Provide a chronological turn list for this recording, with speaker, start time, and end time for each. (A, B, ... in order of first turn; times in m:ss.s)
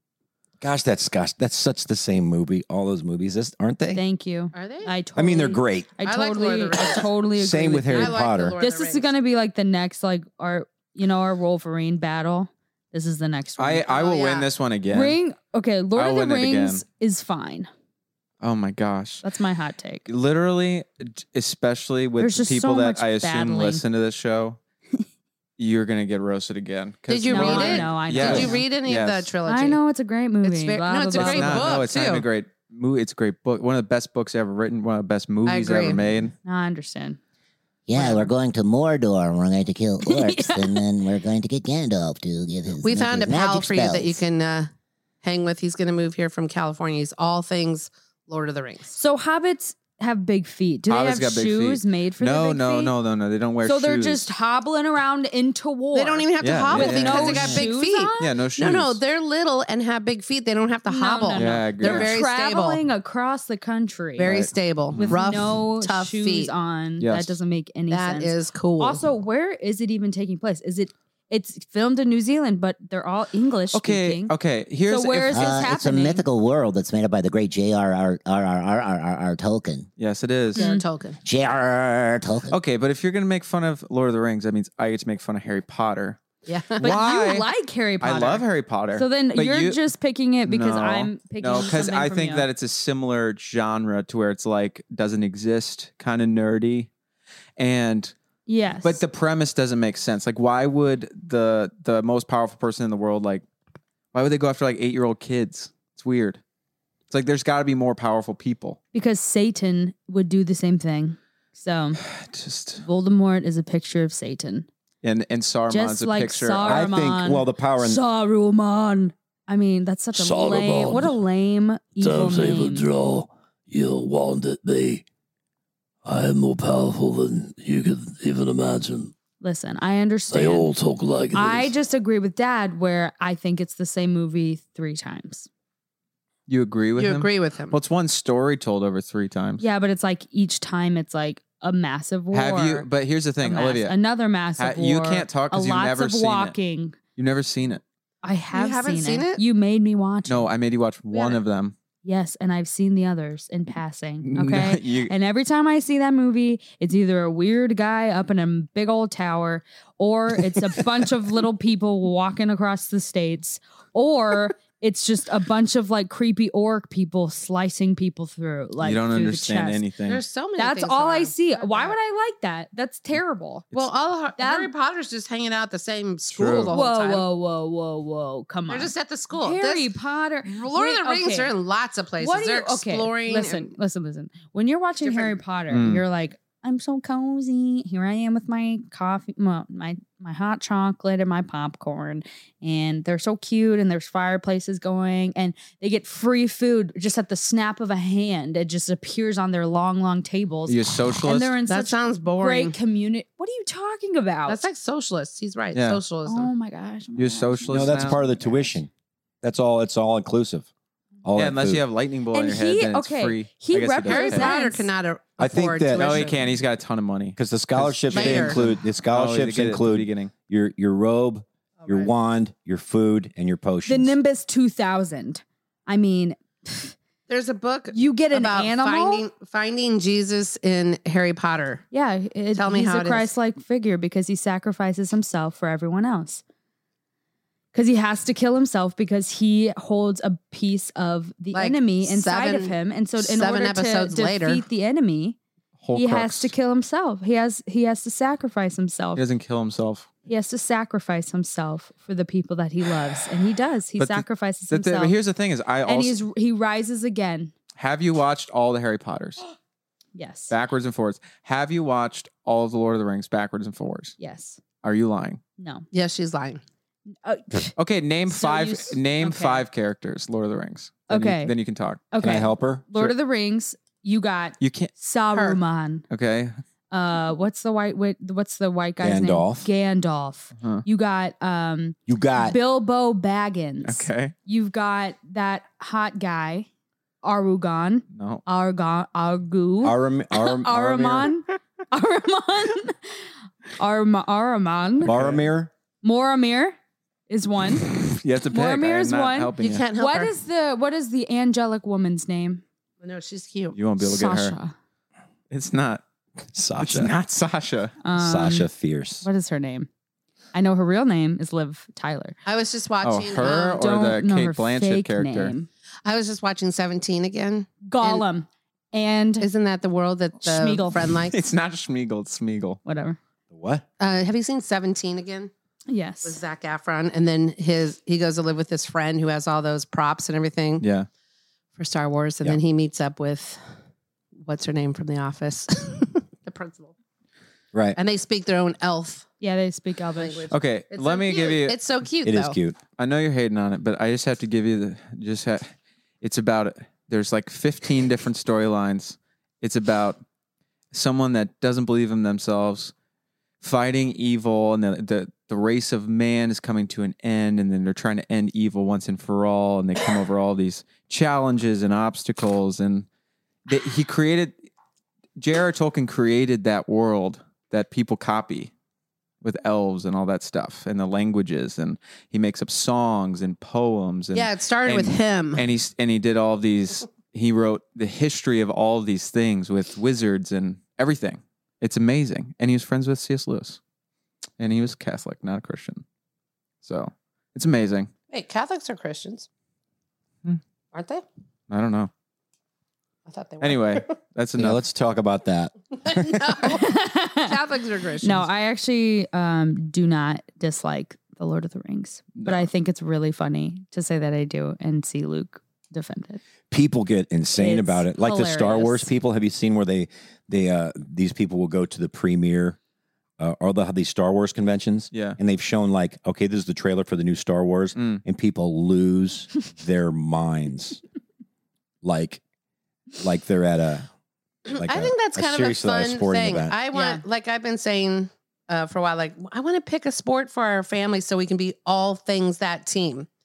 0:00.6-0:04.0 A
0:03.9-0:13.8 B
0:04.5-0:04.9 C
0:05.1-0:05.9 A
0:06.0-0:07.1 C
0:07.4-0:08.6 A
0:07.9-0:09.1 C
0:13.6-0:15.2 D
0:13.8-0:14.5 C
0:14.9-0:17.7 B
0:15.9-0:16.8 D
0:18.4-0:19.2 D
0:19.2-0:20.1 B
0:20.1-0:24.6 D
0:22.2-0:23.8 B
0:25.6-0:29.3 D
0:27.1-0:29.8 C
0:27.3-0:28.6 B
0:29.5-0:31.7 B
0:30.4-0:32.3 C
0:31.1-0:36.3 D
0:35.4-0:36.0 C
0:36.4-0:37.2 B
0:37.9-0:44.2 E
0:37.9-0:38.3 B
0:40.0-0:40.8 B
0:42.8-0:44.7 C
0:45.2-0:48.9 C
0:48.9-0:53.0 B
0:50.9-0:54.3 D
0:53.6-0:58.3 B
0:55.9-1:02.8 C
0:56.4-0:57.6 D
0:58.2-0:59.0 D
1:00.9-1:04.4 B
1:01.4-1:02.1 D
1:04.2-1:06.5 C
1:04.2-1:05.1 D
1:04.9-1:14.3 B
1:07.0-1:07.4 D
1:07.9-1:09.0 C
1:13.7-1:15.6 D
1:14.9-1:16.2 B
1:15.3-1:19.9 E
1:20.0-1:20.6 D
1:20.5-1:20.8 B
1:20.5-1:21.2 C
1:21.2-1:22.6 E
1:22.5-1:26.2 D
1:26.5-1:27.0 C
1:26.8-1:27.5 D
1:26.8-1:32.5 B
1:28.0-1:29.8 D
1:30.4-1:36.9 D
1:37.6-1:38.1 D
1:38.5-1:39.0 B
1:38.8-1:43.4 D
1:44.1-1:46.4 D
1:47.1-1:48.8 D
1:48.9-1:52.0 B
1:52.0-1:52.8 D
1:52.8-1:54.7 B
1:55.0-1:56.9 D
1:55.7-2:02.8 B
1:56.6-1:58.0 A
2:00.1-2:01.2 F
2:02.0-2:05.0 F
2:06.0-2:09.1 F
2:09.4-2:10.7 B
2:10.3-2:11.7 F
2:11.3-2:15.5 B
2:16.5-2:19.6 D
2:17.0-2:17.8 C
2:19.6-2:22.9 B
2:22.3-2:24.0 D
2:23.4-2:27.0 B
2:24.6-2:26.6 D
2:27.2-2:27.8 D
2:28.2-2:30.5 B
2:28.5-2:29.4 C
2:30.3-2:31.7 D
2:31.1-2:31.4 C
2:32.0-2:49.8 B
2:34.2-2:35.1 D
2:48.8-2:50.2 D
2:50.0-2:52.0 C
2:50.6-2:53.7 B
2:53.7-2:57.2 C
2:54.4-2:54.7 B
2:56.3-2:56.7 D
2:56.7-3:01.5 B
2:58.7-2:59.9 C
3:00.4-3:03.7 C
3:02.2-3:24.6 B
3:05.0-3:05.4 C
3:05.7-3:06.0 D
3:20.7-3:21.5 D
3:21.7-3:22.8 C
3:24.5-3:26.5 C
3:25.7-3:26.0 D
3:26.2-3:28.8 B
3:27.2-3:28.2 D
3:27.7-3:28.9 A
3:29.4-3:30.7 A
3:31.2-3:31.8 A
3:31.3-3:34.5 D
3:32.3-3:34.9 B
3:34.0-3:36.5 C
3:35.4-3:36.3 A
3:35.9-3:40.3 D
3:37.4-3:44.2 A
3:38.1-3:38.6 C
3:41.8-3:42.1 C
3:43.9-3:46.9 B
3:47.3-3:51.8 C
3:47.9-3:49.2 B
3:51.9-3:56.4 B
3:52.5-3:53.3 C
3:57.7-4:05.4 B
4:01.5-4:04.6 C
4:05.8-4:06.5 D
4:05.9-4:09.2 B
4:09.2-4:10.1 D
4:10.3-4:15.1 B
4:14.0-4:16.2 D
4:15.8-4:17.5 B
4:17.8-4:19.4 D
4:20.1-4:20.5 B
4:20.5-4:24.1 D
4:24.2-4:24.6 B
4:24.8-4:25.4 D
4:25.6-4:25.8 B
4:25.9-4:26.6 C
4:27.2-4:27.8 B
4:27.8-4:32.0 D
4:28.3-4:29.6 B
4:31.1-4:31.5 B
4:32.1-4:36.0 B
4:32.2-4:32.8 A
4:34.6-4:34.9 D
4:35.3-4:35.6 C
4:36.1-4:36.6 D
4:36.9-4:46.7 B
4:39.0-4:39.7 A
4:40.5-4:40.8 D
4:42.1-4:42.6 A
4:43.8-4:44.3 D
4:47.2-4:53.1 B
4:48.1-4:48.4 D
4:49.8-4:51.3 A
4:53.8-4:55.1 B
4:55.0-4:55.7 A
4:55.0-4:55.4 D
4:56.0-4:56.8 B
4:57.3-4:58.0 B
4:57.9-4:59.8 D
4:58.5-5:02.6 B
4:59.6-5:00.3 C
5:03.0-5:03.8 C
5:03.7-5:04.5 D
5:04.0-5:04.7 B
5:05.5-5:06.0 D
5:06.5-5:07.1 A
5:06.8-5:07.9 D
5:08.0-5:08.7 B
5:08.1-5:09.2 A
5:09.2-5:09.9 B
5:10.5-5:12.4 B
5:12.4-5:13.8 C
5:13.0-5:15.5 D
5:13.4-5:15.7 B
5:16.0-5:18.2 C
5:17.8-5:19.5 B
5:19.4-5:21.4 C
5:20.4-5:21.0 B
5:21.2-5:22.8 D
5:22.8-5:23.2 B
5:23.5-5:23.8 A
5:24.0-5:25.5 C
5:25.9-5:26.4 B
5:26.2-5:30.8 C
5:30.8-5:31.1 D
5:31.8-5:33.6 C
5:34.4-5:36.9 C
5:37.7-5:38.0 A
5:38.0-5:39.3 C
5:39.4-5:40.5 B
5:40.1-5:42.6 C
5:40.5-5:41.8 D
5:42.2-5:42.8 A
5:43.0-5:50.2 D
5:50.9-5:52.9 D
5:53.6-6:03.1 D
6:03.7-6:04.5 D
6:05.4-6:08.7 D
6:09.4-6:23.8 D
6:14.3-6:15.6 C
6:24.6-6:26.0 D
6:26.8-6:28.1 D
6:28.3-6:29.5 C
6:30.9-6:31.2 C
6:31.7-6:32.1 D
6:33.3-6:34.1 C
6:33.6-6:34.8 D
6:34.6-6:36.6 A
6:36.0-6:38.5 C
6:36.7-6:37.5 B
6:38.2-6:46.4 B
6:42.4-6:42.7 D
6:46.7-6:52.8 A
6:47.6-6:49.1 B
6:53.4-7:01.0 A
6:55.1-6:55.4 D
6:58.0-6:58.2 D
7:02.0-7:02.4 A
7:03.2-7:04.1 A
7:04.7-7:13.3 C
7:04.7-7:06.8 A
7:06.9-7:07.2 B